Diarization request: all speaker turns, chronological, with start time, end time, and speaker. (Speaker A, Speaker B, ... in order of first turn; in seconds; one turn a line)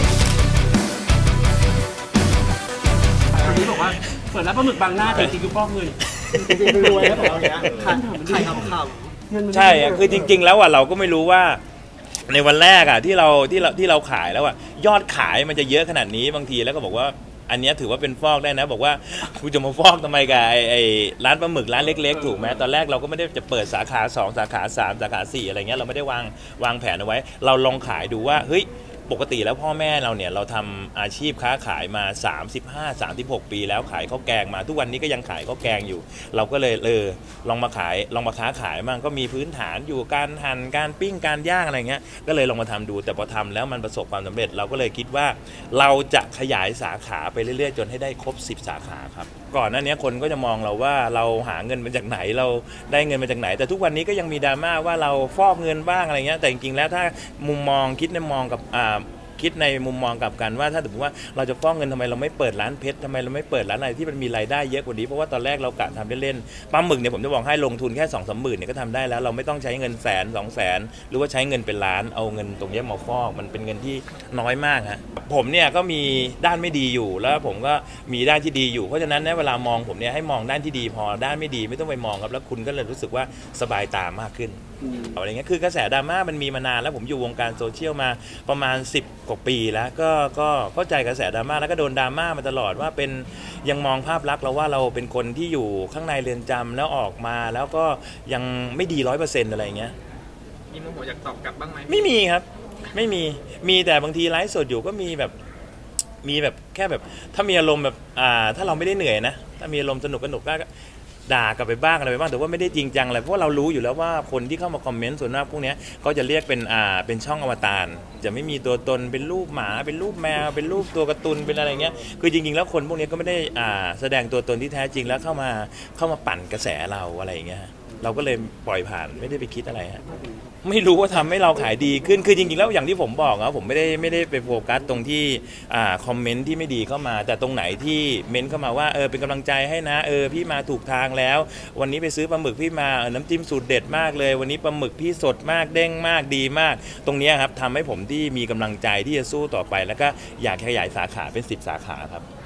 Speaker A: 3.3-10.3
Speaker B: 6.1-7.0
Speaker C: 6.7-9.1
Speaker B: 9.5-11.6
Speaker B: 12.2-99.9
Speaker A: 22.1-22.5
Speaker A: 84.8-85.1
Speaker C: 100.7-102.0
Speaker B: 101.9-105.3
Speaker B: 106.2-110.7
Speaker B: 111.3-130.0
Speaker B: 130.6-152.2